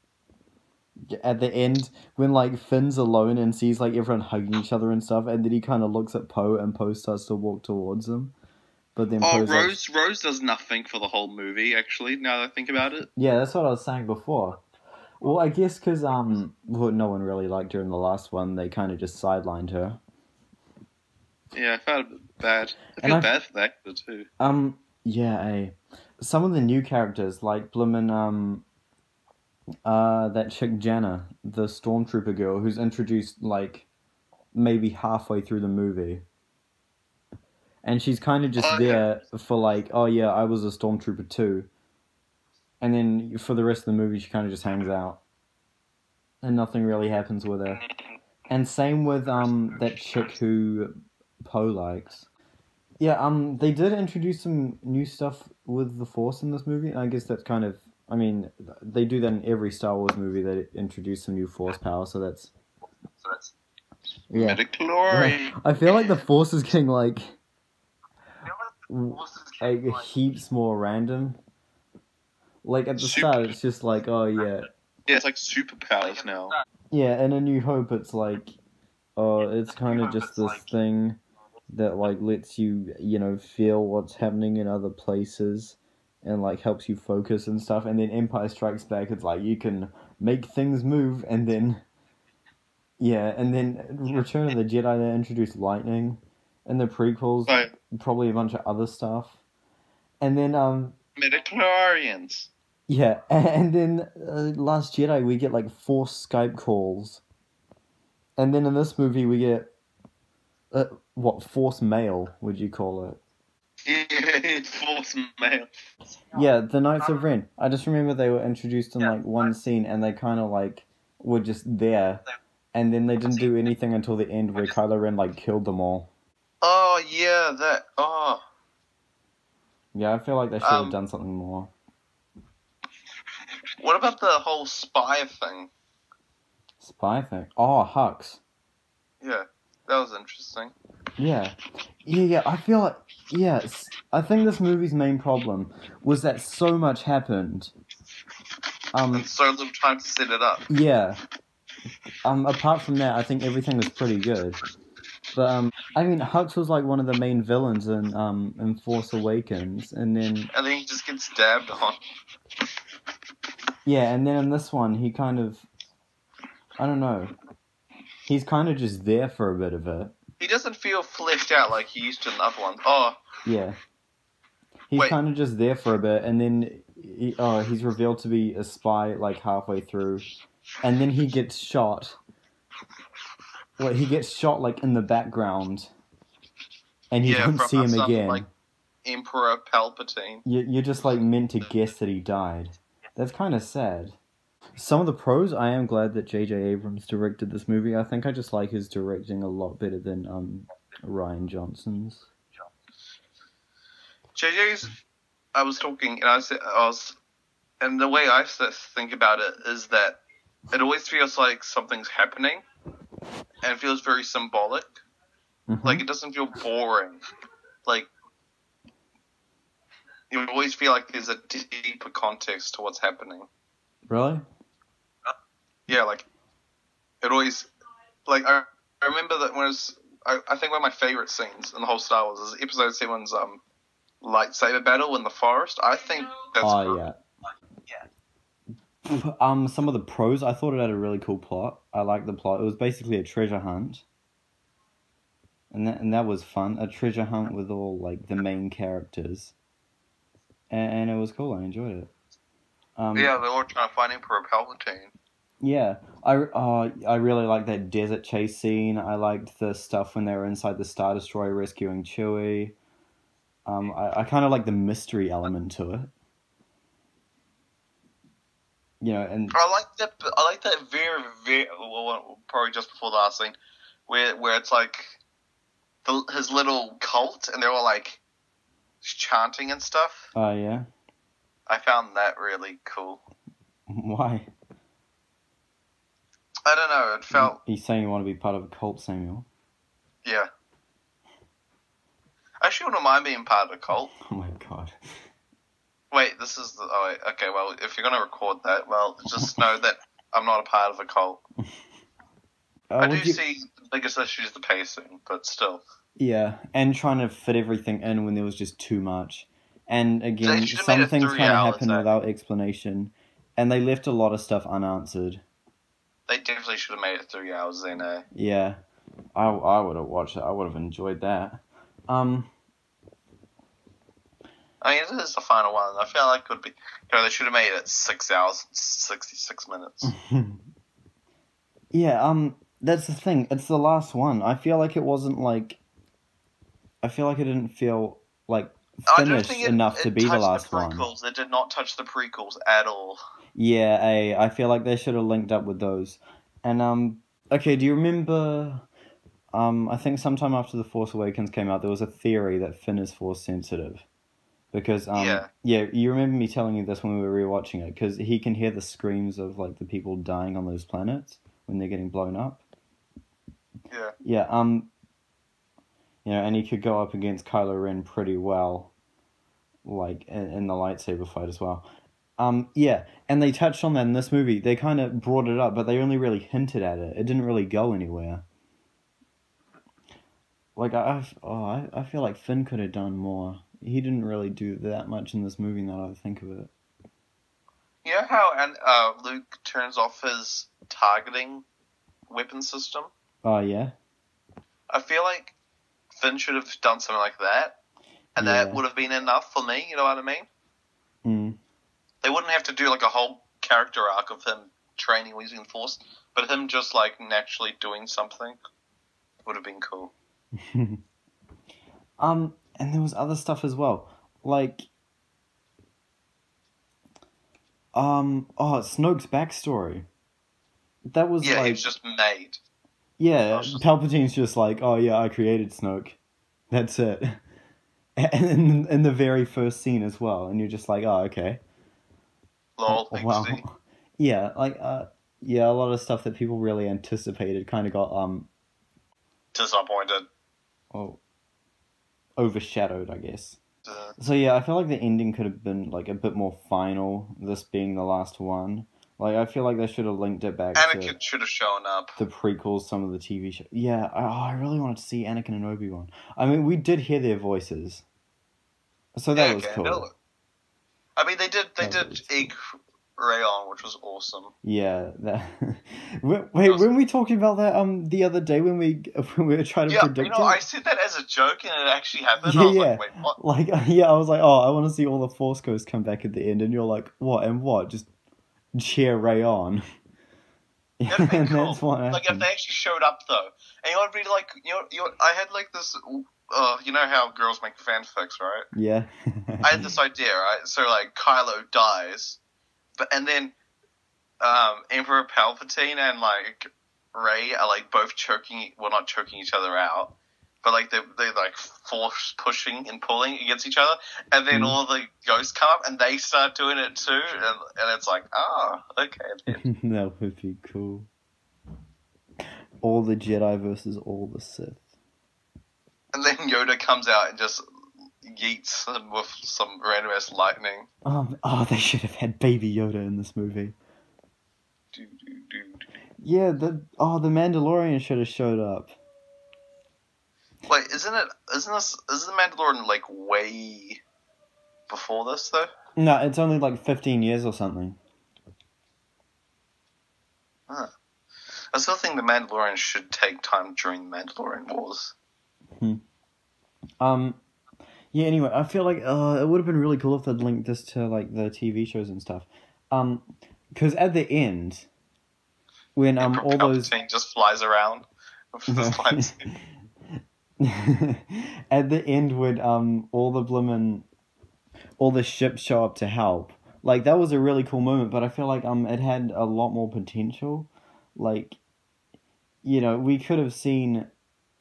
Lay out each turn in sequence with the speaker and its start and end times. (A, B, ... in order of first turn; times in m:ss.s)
0:01.1-0:08.3 A
0:09.0-0:09.7 A
0:09.2-0:13.1 B
0:13.2-0:14.6 A
0:15.2-0:20.0 A
0:21.5-0:24.3 B
0:24.4-0:28.6 A
0:29.8-0:33.8 A
0:34.5-0:36.2 A
0:37.8-0:41.7 A
0:38.6-0:39.0 B
0:42.8-0:45.2 A
0:46.4-0:47.7 A
0:48.5-0:50.9 A
0:51.5-0:52.2 A
0:53.0-1:02.5 A
1:04.3-1:06.1 B
1:05.1-1:07.2 A
1:08.9-1:11.3 A
1:12.6-1:14.5 A
1:13.0-1:13.6 B
1:15.1-1:16.5 B
1:16.9-1:18.5 A
1:19.2-1:21.2 A
1:21.7-1:31.8 A
1:33.0-1:37.5 A
1:37.4-1:37.7 B
1:38.0-1:39.3 A
1:40.2-1:40.9 A
1:41.2-1:42.5 B
1:42.9-1:47.2 A
1:48.4-1:49.6 A
1:50.8-1:53.2 A
1:53.8-1:55.7 B
1:56.4-2:02.2 A
2:02.8-2:06.0 A
2:06.6-2:08.4 B
2:10.0-2:11.6 A
2:10.6-2:11.0 B
2:13.8-2:15.7 B
2:16.8-2:18.4 A
2:19.2-2:20.7 B
2:21.2-2:21.5 A
2:22.1-2:27.7 A
2:29.1-2:30.7 B
2:30.7-2:31.1 A
2:32.3-2:34.5 A
2:35.5-2:40.4 A
2:40.5-2:42.0 B
2:43.9-2:45.6 A
2:46.8-2:47.3 A
2:48.3-2:50.1 A
2:50.4-2:53.2 B
2:54.9-3:00.2 A
3:00.9-3:02.1 A
3:03.8-3:05.8 A
3:07.2-3:08.4 B
3:07.2-3:08.3 A
3:09.0-3:10.4 B
3:10.5-3:12.7 A
3:13.2-3:14.1 A
3:14.8-3:22.2 A
3:24.3-3:25.0 B
3:25.5-3:27.2 B
3:27.8-3:30.2 B
3:30.7-3:32.6 B
3:33.6-3:34.9 B
3:35.8-3:37.2 B
3:40.3-3:43.5 B
3:45.9-3:46.2 B
3:47.2-3:47.7 B
3:48.3-3:53.6 B
3:54.2-3:57.0 B
3:56.7-3:57.0 C
3:59.4-4:04.0 C
4:05.8-4:09.4 C
4:10.8-4:12.1 C
4:13.1-4:15.1 B
4:15.6-4:22.6 C
4:23.7-4:26.0 C
4:29.0-4:29.5 C
4:29.5-4:33.6 B
4:34.1-4:35.2 B
4:36.0-4:38.2 B
4:39.0-4:40.3 B
4:40.4-4:40.8 C
4:41.7-4:43.2 B
4:44.1-4:44.4 C
4:46.6-4:47.6 B
4:47.7-4:49.4 C
4:50.2-4:50.5 B
4:52.6-4:54.1 B
4:54.4-4:54.9 C
4:56.1-5:01.4 B
5:02.9-5:03.4 C
5:03.0-5:05.8 B
5:06.2-5:15.4 C
5:10.4-5:12.2 B
5:16.3-5:18.2 B
5:18.4-5:18.8 C
5:19.4-5:21.6 C
5:22.1-5:22.4 C
5:24.8-5:30.1 B
5:30.0-5:30.5 C
5:31.9-5:35.8 C
5:37.0-5:41.0 C
5:39.1-5:43.2 B
5:43.6-5:48.8 C
5:49.5-5:54.0 C
5:54.7-6:02.6 C
5:55.1-5:55.5 B
6:03.9-6:04.1 B
6:04.2-6:04.9 C
6:06.2-6:08.9 C
6:09.8-6:11.8 C
6:12.4-6:18.4 C
6:20.8-6:26.7 C
6:28.0-6:31.6 B
6:32.3-6:33.1 B
6:33.4-6:33.9 C
6:34.9-6:35.6 B
6:36.1-6:37.8 B
6:38.4-6:40.5 B
6:38.4-6:38.8 C
6:41.2-6:41.6 C
6:42.2-6:48.6 B
6:49.4-6:50.1 B
6:52.2-6:54.8 C
6:57.9-7:00.0 C
7:01.1-7:01.8 C
7:01.4-7:02.6 B
7:03.2-7:06.2 C
7:03.5-7:03.8 B
7:06.7-7:07.4 C
7:08.2-7:11.6 C
7:12.8-7:13.6 B
7:12.9-7:18.5 C
7:19.5-7:20.3 B
7:20.9-7:21.2 C
7:22.4-7:23.6 C
7:24.2-7:31.1 C
7:30.7-7:32.2 B
7:32.2-7:38.0 C
7:39.2-7:40.1 C
7:39.3-7:40.1 B
7:41.2-7:42.6 B
7:41.8-7:42.2 C
7:43.2-7:44.5 B
7:44.6-7:50.6 C
7:46.6-7:46.9 B
7:49.9-7:53.4 B
7:52.4-7:58.1 C
7:58.7-7:59.8 C
8:01.0-8:02.4 C
8:01.1-8:08.6 B
8:08.7-8:09.9 C
8:09.6-8:12.4 B
8:13.0-8:13.5 B
8:14.4-8:29.6 B
8:24.5-8:24.8 C
8:29.5-8:31.1 C
8:32.8-8:34.8 C
8:36.1-8:37.6 B
8:38.2-8:40.9 B
8:41.0-8:43.7 C
8:44.9-8:45.9 B
8:46.2-8:48.9 C
8:50.7-8:54.0 B
8:54.9-8:55.7 B
8:56.0-8:58.0 C
9:01.7-9:05.1 B
9:07.0-9:07.4 C
9:08.1-9:14.8 C
9:16.0-9:16.9 C
9:16.2-9:19.4 B
9:18.7-9:19.5 C
9:20.6-9:24.0 C
9:25.0-9:31.6 C
9:32.6-9:34.1 C